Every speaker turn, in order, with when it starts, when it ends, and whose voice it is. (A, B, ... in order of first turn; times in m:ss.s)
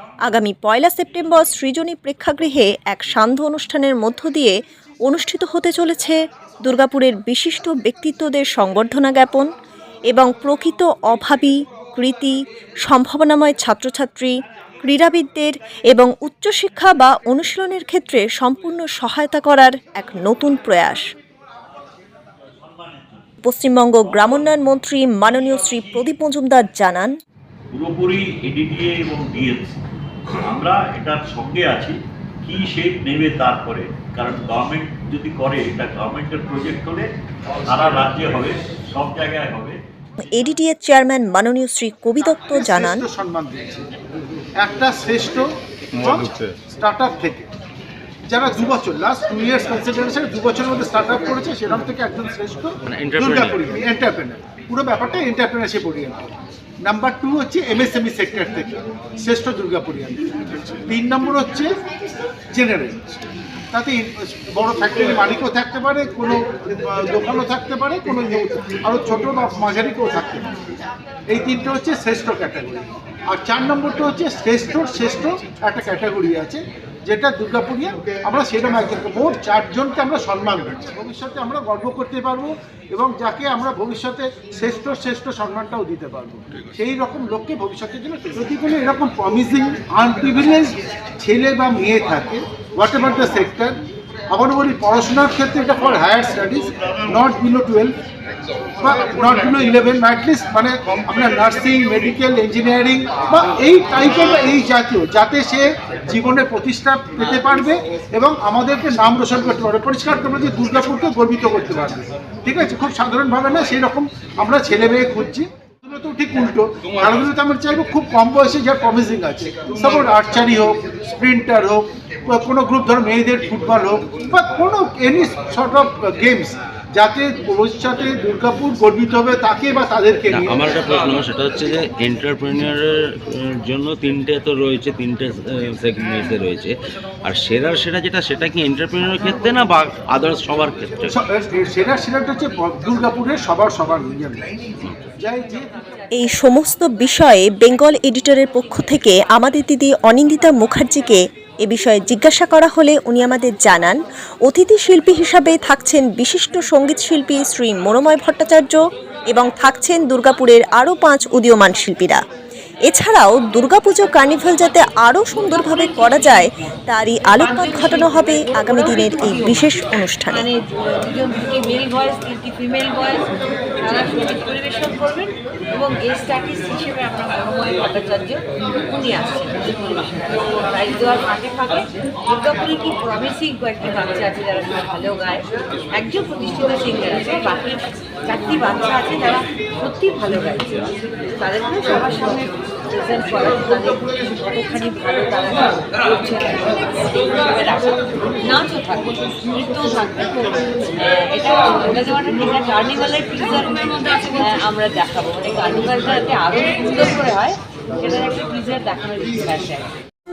0:00.3-0:04.5 A
0:05.1-0:09.5 A
0:10.1-0:21.0 A
0:22.6-0:23.3 B
0:23.4-0:27.1 A
0:27.7-0:29.8 B
0:30.4-0:37.1 B
0:37.7-0:39.8 B
0:40.3-0:43.0 A
0:42.5-0:43.8 C
0:44.6-0:45.5 C
0:46.0-0:47.5 C
0:46.0-0:46.6 D
0:48.3-0:56.3 C
0:52.9-0:53.6 D
0:56.8-1:00.2 C
1:00.9-1:01.7 C
1:02.5-1:03.0 C
1:03.7-1:10.5 C
1:11.3-1:33.8 C
1:34.3-1:37.9 C
1:38.8-2:10.8 C
2:10.3-2:21.2 D
2:21.1-2:24.4 C
2:24.8-2:25.1 D
2:25.2-2:25.8 C
2:26.2-2:38.8 A
2:39.3-2:42.2 A
2:42.9-2:50.5 A
2:45.8-2:46.4 E
2:47.4-2:53.2 E
2:53.8-3:30.0 E